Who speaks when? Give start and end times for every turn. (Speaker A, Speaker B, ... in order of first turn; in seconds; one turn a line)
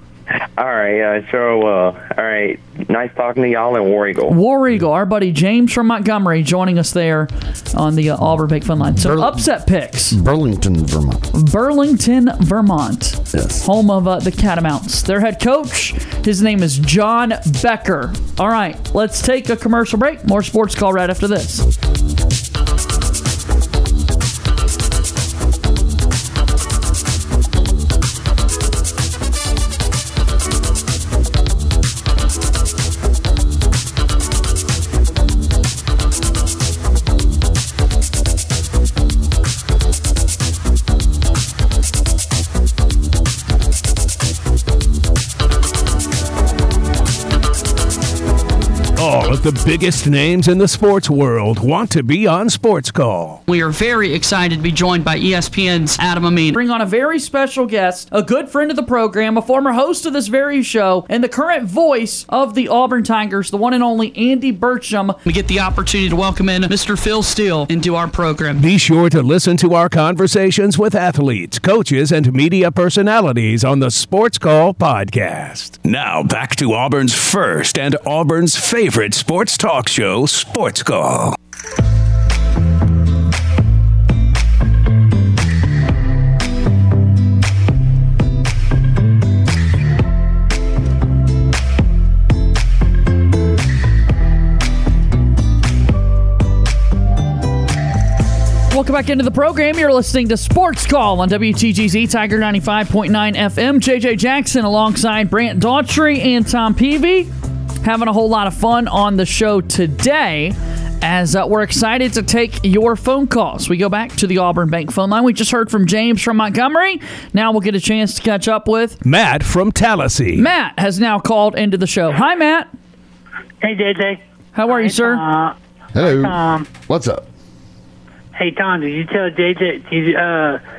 Speaker A: 0.6-4.4
Speaker B: 4.3-10.2
Speaker C: 9.0-9.4
Speaker C: 10.1-11.2
Speaker B: 11.3-21.6
Speaker C: 13.3-13.6
Speaker D: 49.0-53.4
Speaker E: 53.5-56.6
Speaker B: 56.6-65.2
Speaker E: 65.2-68.6
Speaker D: 68.6-81.3
Speaker B: 98.7-107.3
Speaker B: 107.8-119.0
Speaker D: 119.0-120.5
Speaker B: 120.3-122.7
Speaker F: 123.6-126.7
Speaker B: 124.5-125.2
Speaker C: 125.9-127.2
Speaker F: 128.3-130.6